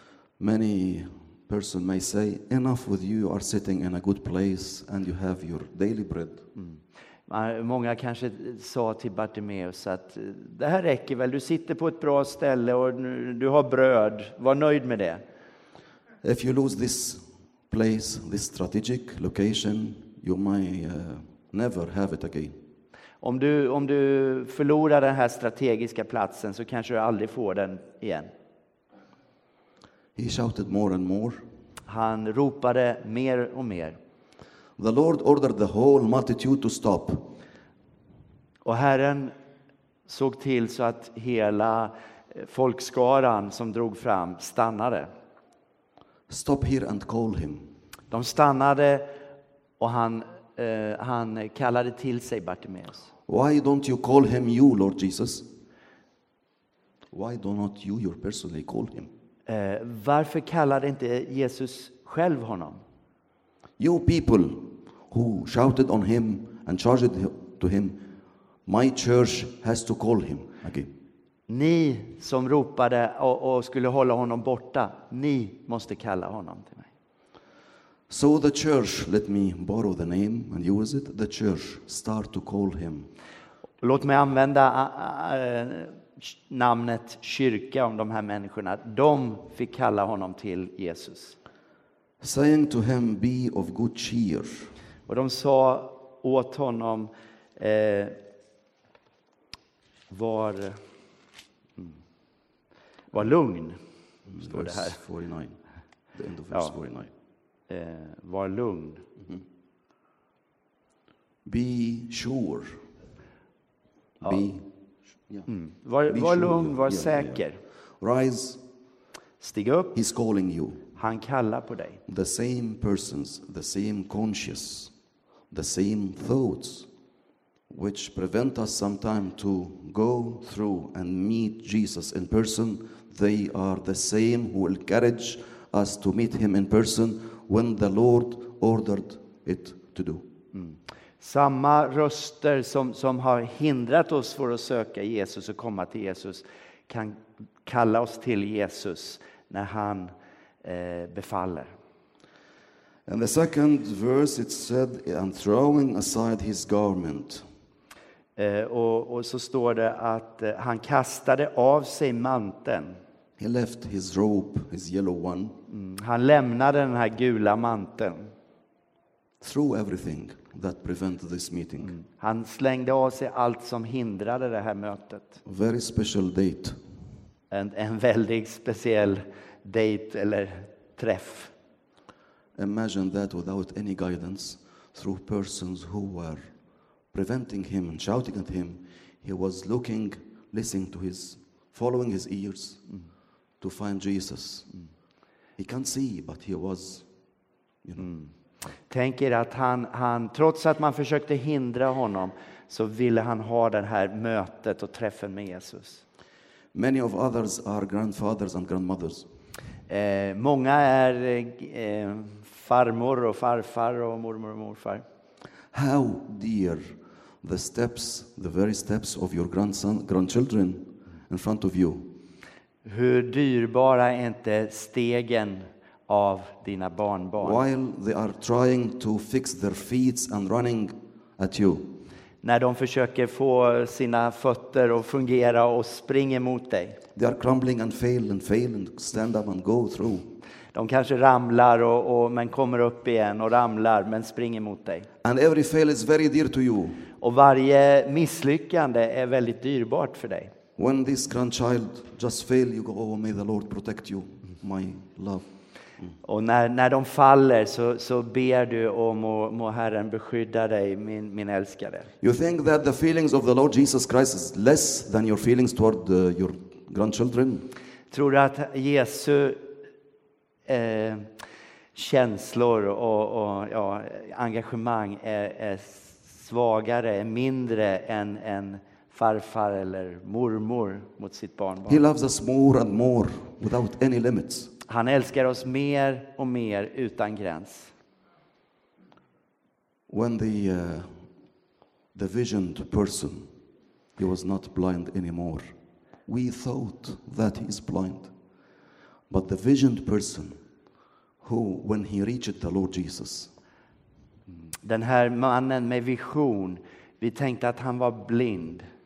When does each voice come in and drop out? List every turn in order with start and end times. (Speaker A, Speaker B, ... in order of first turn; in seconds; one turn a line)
Speaker A: 0.4-6.4
Speaker B: 6.6-15.2
Speaker A: 16.2-22.6
Speaker B: 23.2-28.3
Speaker A: 30.1-31.4
Speaker B: 31.9-34.0
Speaker A: 34.8-37.3
Speaker B: 38.6-39.3
Speaker B: 40.1-45.1
Speaker A: 46.3-47.7
Speaker B: 48.1-49.1
Speaker B: 49.8-53.1
Speaker A: 53.3-55.5
Speaker A: 57.1-59.1
Speaker B: 59.5-62.8
Speaker A: 63.8-68.0
Speaker A: 68.7-70.9
Speaker B: 71.5-76.9
Speaker A: 78.1-83.1
Speaker B: 83.8-91.3
Speaker A: 92.2-94.7
Speaker B: 95.1-98.2
Speaker B: 100.1-100.8
Speaker B: 103.1-103.8
Speaker A: 104.3-105.6
Speaker B: 104.4-105.0
Speaker A: 106.1-107.1
Speaker B: 107.7-109.0
Speaker A: 111.4-112.8
Speaker A: 114.2-114.7
Speaker B: 115.5-117.6
Speaker A: 116.1-117.4
Speaker A: 118.0-118.6
Speaker B: 119.4-119.9
Speaker A: 119.9-120.8
Speaker B: 121.0-122.0
Speaker A: 122.1-124.9
Speaker A: 125.5-126.9
Speaker A: 127.7-140.2
Speaker B: 140.5-150.1
Speaker B: 150.6-151.7
Speaker A: 153.1-157.4
Speaker B: 158.4-163.0
Speaker A: 163.4-165.5
Speaker B: 165.7-168.3
Speaker A: 169.4-171.9
Speaker B: 171.8-175.4
Speaker A: 175.4-176.8
Speaker B: 177.5-181.5
Speaker A: 182.6-186.4
Speaker A: 187.1-192.8
Speaker A: 193.6-194.7
Speaker A: 195.6-197.1
Speaker B: 198.0-198.3
Speaker B: 198.9-206.0
Speaker A: 206.7-209.3
Speaker B: 209.9-215.0
Speaker A: 215.7-222.1
Speaker B: 222.8-227.6
Speaker A: 227.4-231.9
Speaker B: 232.4-237.0
Speaker A: 237.2-240.3
Speaker B: 240.7-245.1
Speaker A: 245.2-247.0
Speaker B: 247.2-250.5
Speaker A: 250.8-255.4
Speaker B: 256.2-262.1
Speaker A: 262.2-267.7
Speaker B: 268.1-269.7
Speaker B: 270.7-271.3
Speaker B: 271.9-282.0
Speaker A: 281.9-284.7
Speaker B: 284.9-287.9
Speaker A: 290.1-291.2
Speaker A: 292.1-293.5
Speaker A: 294.2-295.7
Speaker A: 296.3-298.3
Speaker A: 299.3-300.6
Speaker A: 301.4-303.5
Speaker B: 304.8-308.9